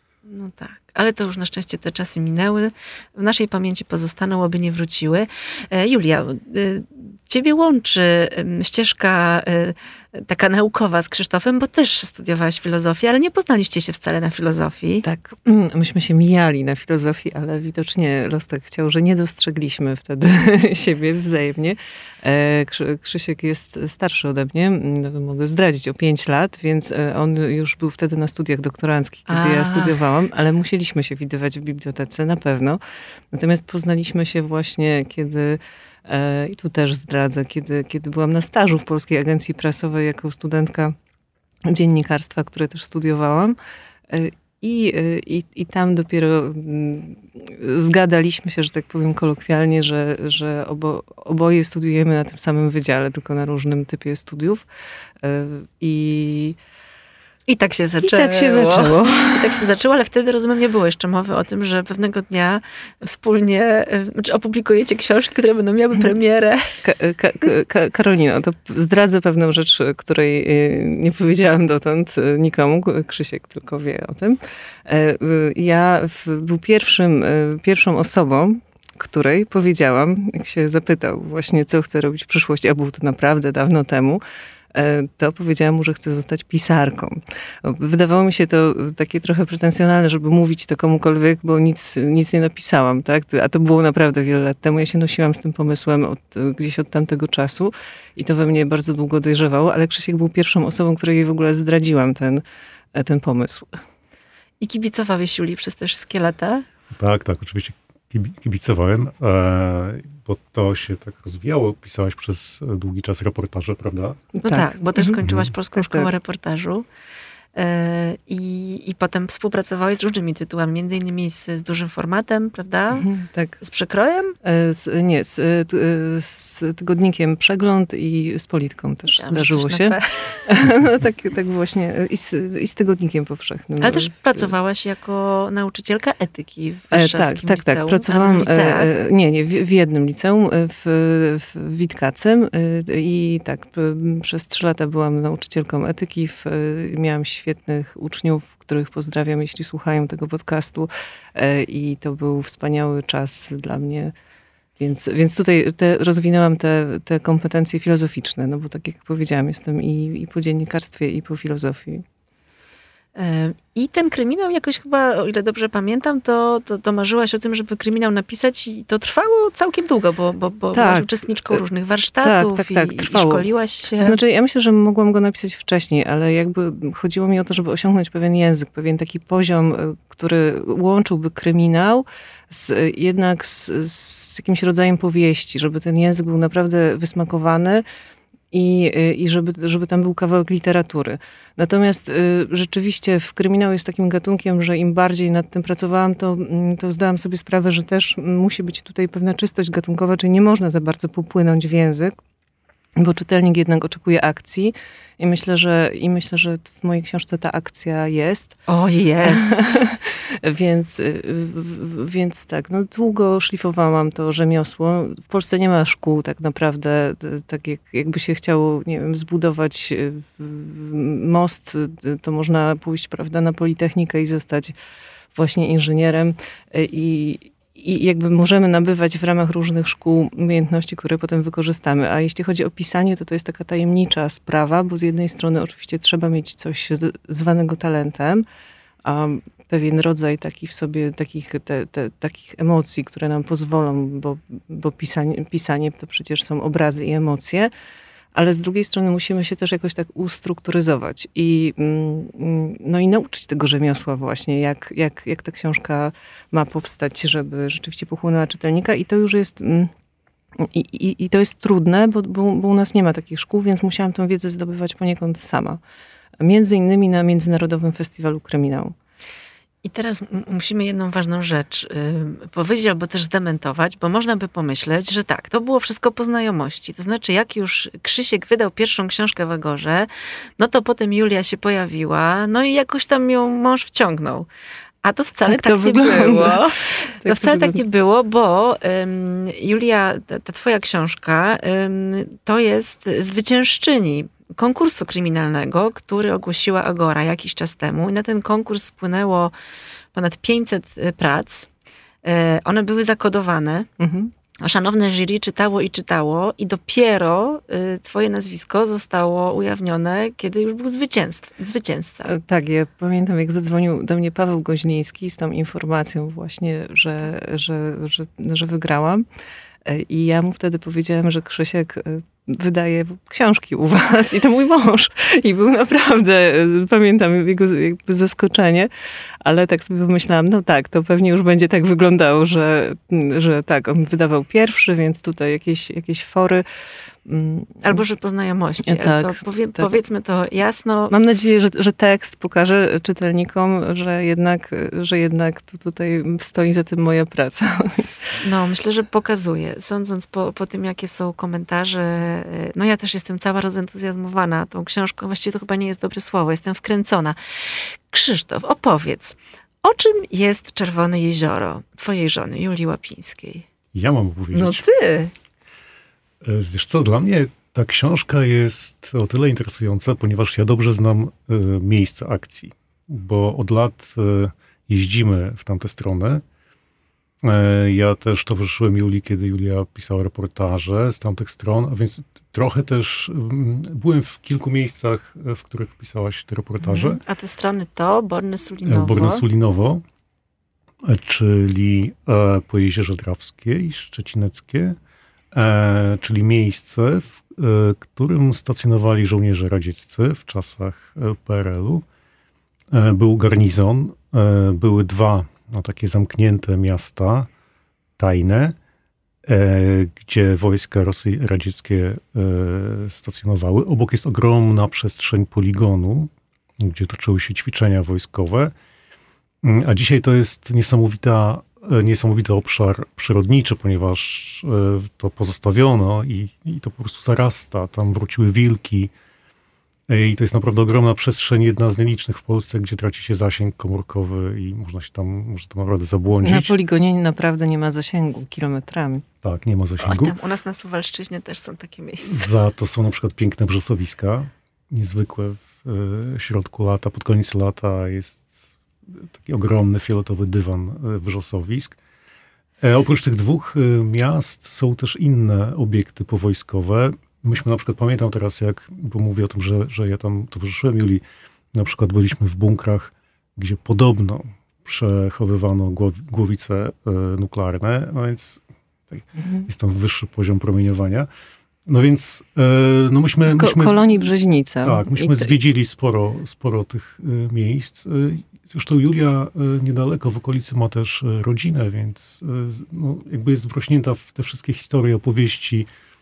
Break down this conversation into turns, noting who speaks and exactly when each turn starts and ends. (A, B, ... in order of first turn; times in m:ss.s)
0:00.2-0:15.0 A
0:15.0-0:32.8 B
0:29.3-0:30.0 A
0:33.3-0:40.9 B
0:41.7-0:43.6 B
0:44.1-0:54.6 B
0:55.2-0:56.6 B
0:57.5-1:06.8 A
0:58.0-0:59.5 B
1:06.8-1:24.2 B
1:24.7-1:42.4 B
1:42.9-1:43.8 B
1:44.6-1:46.7 A
1:46.9-1:54.2 C
1:54.3-1:55.2 B
1:54.4-1:56.8 A
1:55.2-1:55.5 C
1:55.7-1:56.1 B
1:57.5-2:03.1 A
2:02.9-2:03.6 B
2:03.6-2:04.4 A
2:04.4-2:14.5 B
2:09.1-2:10.5 A
2:13.8-2:18.9 A
2:16.9-2:34.1 B
2:34.8-2:42.0 B
2:43.1-2:54.2 A
2:50.7-2:51.6 B
2:52.2-2:53.4 B
2:54.0-3:07.8 B
3:08.5-3:22.2 B
3:23.0-3:28.6 B
3:28.7-3:29.6 A
3:29.3-3:44.7 B
3:45.3-3:58.4 B
3:59.0-4:07.7 B
4:08.3-4:19.9 B
4:20.6-4:25.8 B
4:26.4-4:28.9 B
4:29.8-4:44.5 A
4:45.0-4:59.5 A
4:45.4-4:47.8 B
5:00.1-5:01.7 A
5:02.2-5:03.9 A
5:04.0-5:04.3 B
5:04.6-5:12.3 A
5:12.3-5:19.2 B
5:19.8-5:28.9 B
5:29.4-5:36.6 B
5:37.2-5:38.0 B
5:37.8-5:41.1 A
5:38.8-5:39.9 B
5:41.1-5:48.1 B
5:48.4-6:03.6 A
6:03.9-6:04.8 C
6:04.5-6:05.3 A
6:06.4-6:16.4 C
6:17.4-6:27.2 C
6:26.8-6:29.4 A
6:28.8-6:30.0 C
6:31.0-6:35.0 C
6:35.5-6:42.0 C
6:42.9-6:47.5 C
6:48.2-6:48.8 C
6:49.4-6:58.7 C
6:59.6-7:09.1 C
7:10.1-7:16.7 C
7:16.4-7:19.2 B
7:19.4-7:20.3 C
7:20.0-7:22.5 A
7:22.2-7:28.5 C
7:29.1-7:32.0 C
7:32.8-7:41.2 C
7:41.7-7:51.3 C
7:49.4-7:49.6 B
7:51.9-7:54.3 C
7:53.4-7:55.5 B
7:54.8-8:05.9 C